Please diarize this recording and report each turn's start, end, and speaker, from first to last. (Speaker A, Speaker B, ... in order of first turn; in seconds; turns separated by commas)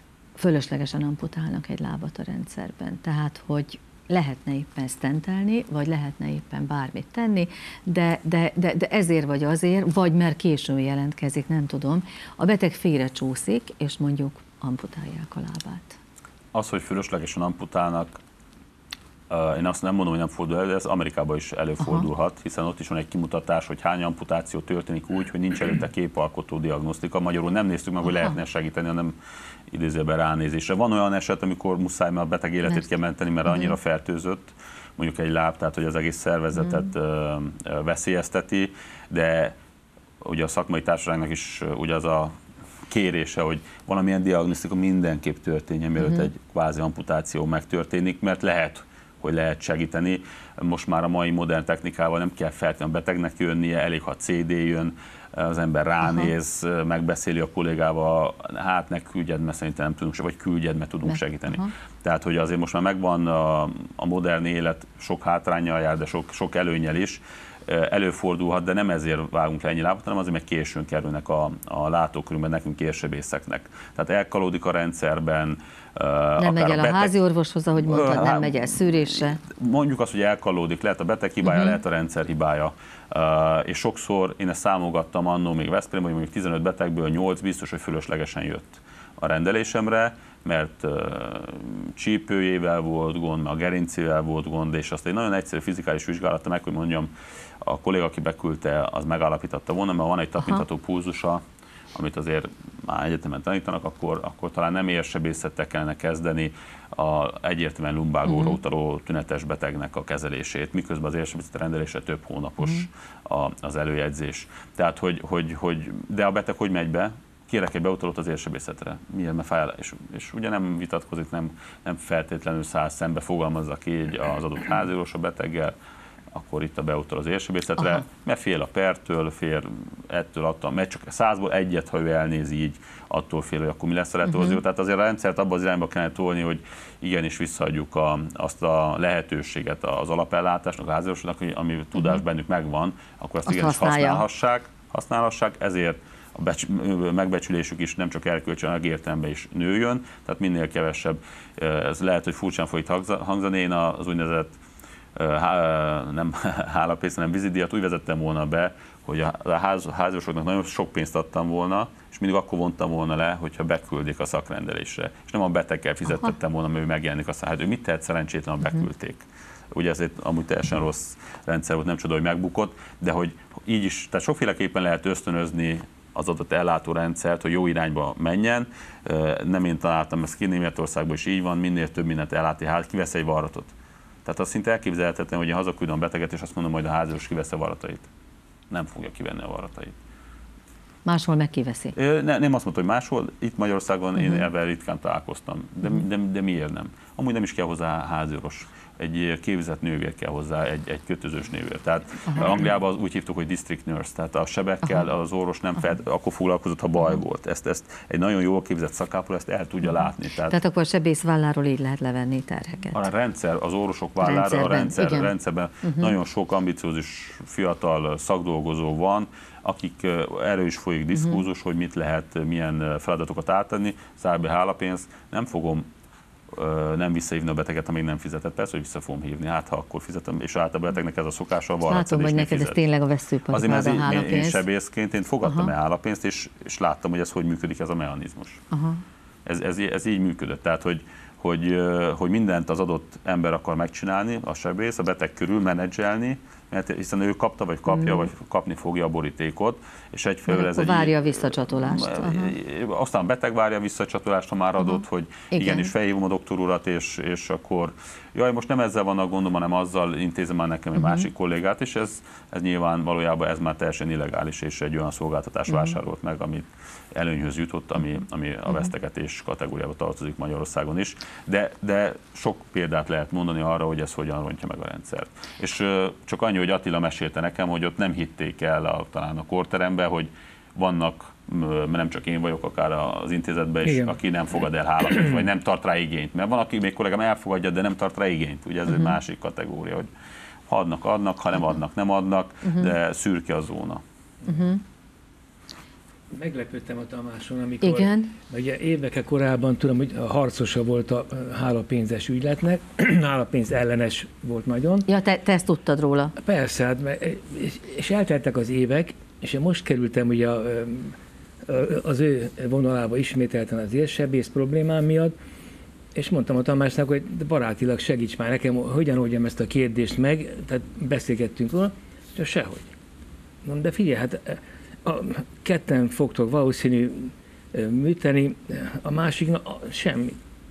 Speaker A: 0.3-16.0, Speaker B: 16.5-18.2, Speaker B: 19.3-29.1, Speaker A: 21.8-22.1, Speaker B: 29.7-39.5, Speaker A: 33.5-33.7, Speaker A: 36.6-36.9, Speaker B: 40.2-42.3, Speaker B: 42.9-77.1, Speaker A: 46.0-46.3, Speaker A: 56.0-56.3, Speaker A: 61.1-61.7, Speaker A: 76.4-79.4, Speaker B: 77.8-97.1, Speaker A: 81.4-81.8, Speaker B: 97.6-101.4, Speaker B: 101.9-125.7, Speaker A: 108.3-108.5, Speaker B: 126.3-154.6, Speaker A: 134.3-134.6, Speaker A: 143.5-144.2, Speaker B: 155.2-183.7, Speaker B: 184.2-188.1, Speaker B: 188.7-189.9, Speaker A: 191.0-191.9, Speaker B: 191.9-210.6, Speaker A: 194.2-194.4, Speaker A: 202.3-202.5, Speaker A: 210.5-213.0, Speaker B: 212.9-225.8, Speaker A: 214.2-215.3, Speaker A: 215.8-216.1, Speaker B: 226.5-232.8, Speaker A: 231.9-234.6, Speaker B: 233.5-238.6, Speaker A: 235.4-235.7, Speaker A: 238.7-239.0, Speaker B: 239.4-290.1, Speaker A: 248.0-248.2, Speaker A: 250.5-252.5, Speaker A: 254.8-255.9, Speaker A: 260.9-261.3, Speaker A: 265.7-265.9, Speaker C: 283.9-284.1, Speaker A: 288.9-289.1, Speaker B: 290.7-294.0, Speaker A: 292.6-292.9, Speaker A: 294.4-294.8, Speaker C: 296.3-305.1, Speaker A: 297.8-298.3, Speaker A: 305.1-306.4, Speaker C: 306.4-311.1, Speaker C: 311.7-315.3, Speaker C: 316.1-322.9, Speaker C: 323.6-330.4